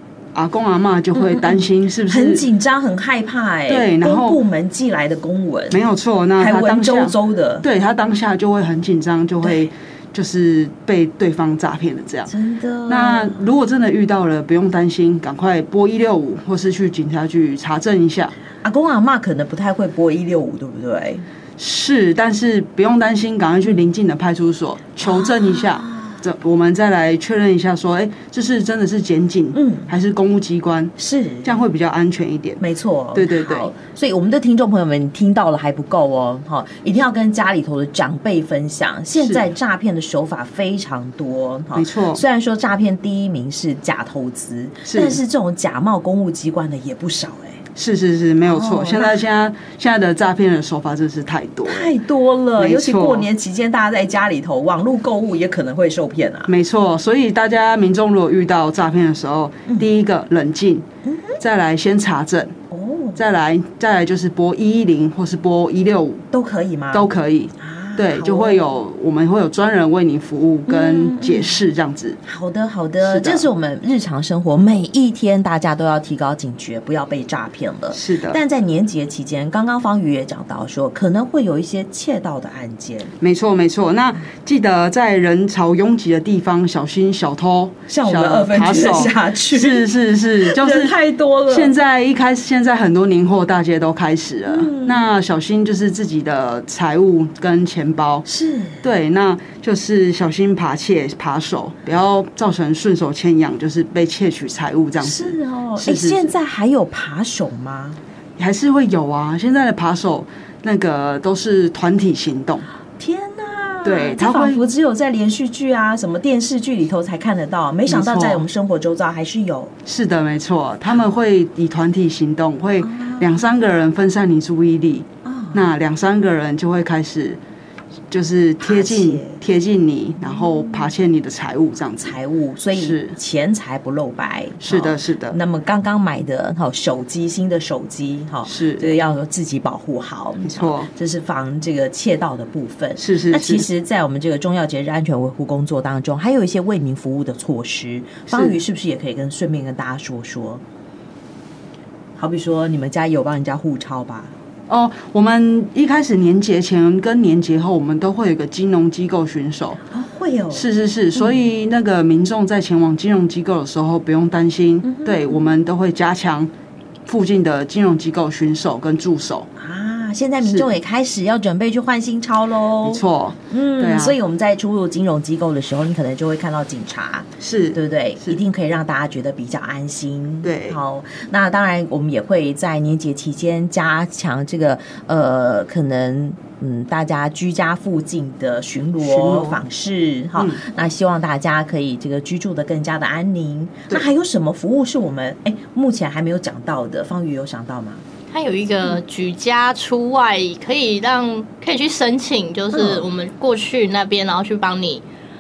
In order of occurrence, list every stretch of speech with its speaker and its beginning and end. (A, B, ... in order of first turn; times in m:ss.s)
0:00.4-0:02.5 A
0:01.1-0:07.6 B
0:03.7-0:04.4 A
0:05.7-0:12.4 A
0:12.3-0:13.4 B
0:12.9-0:18.4 A
0:18.6-0:21.2 B
0:21.6-0:33.7 A
0:25.0-0:26.1 B
0:29.5-0:29.9 B
0:31.0-0:31.6 B
0:32.6-0:47.6 B
0:39.2-0:39.5 A
0:41.8-0:42.2 A
0:44.9-0:45.2 A
0:47.8-0:52.0 A
0:48.5-0:49.2 B
0:51.7-0:56.5 B
0:52.6-0:53.3 A
0:56.5-1:00.9 A
1:01.1-1:01.4 B
1:01.4-1:02.5 A
1:02.7-1:03.2 B
1:03.2-1:06.3 A
1:06.3-1:07.1 B
1:06.9-1:12.2 A
1:07.6-1:08.7 B
1:10.7-1:11.6 B
1:12.3-1:23.1 B
1:13.0-1:13.5 A
1:17.9-1:18.4 A
1:23.2-1:38.3 A
1:27.9-1:29.9 B
1:30.4-1:31.8 B
1:34.5-1:35.1 B
1:38.3-1:38.9 B
1:38.8-1:46.3 A
1:45.0-1:48.0 B
1:48.4-1:52.6 A
1:53.0-1:59.7 B
1:53.8-1:54.7 A
1:57.9-1:58.5 A
1:59.9-2:07.4 A
2:02.8-2:03.6 B
2:05.2-2:05.7 B
2:08.1-2:12.2 A
2:08.6-2:09.4 B
2:10.2-2:10.9 B
2:12.0-2:30.6 B
2:12.7-2:13.2 A
2:14.6-2:15.4 A
2:18.5-2:18.9 A
2:20.4-2:20.9 A
2:23.0-2:23.7 A
2:28.3-2:28.6 A
2:32.2-2:34.3 B
2:34.7-2:39.8 A
2:39.9-2:41.4 B
2:40.5-2:46.5 A
2:44.8-2:45.5 B
2:47.1-2:49.5 A
2:49.6-3:18.0 B
2:50.4-2:50.8 A
2:52.8-2:54.2 A
2:57.4-2:58.4 A
3:00.4-3:00.8 A
3:09.0-3:09.6 A
3:10.4-3:10.6 A
3:18.3-3:25.0 C
3:22.7-3:23.1 B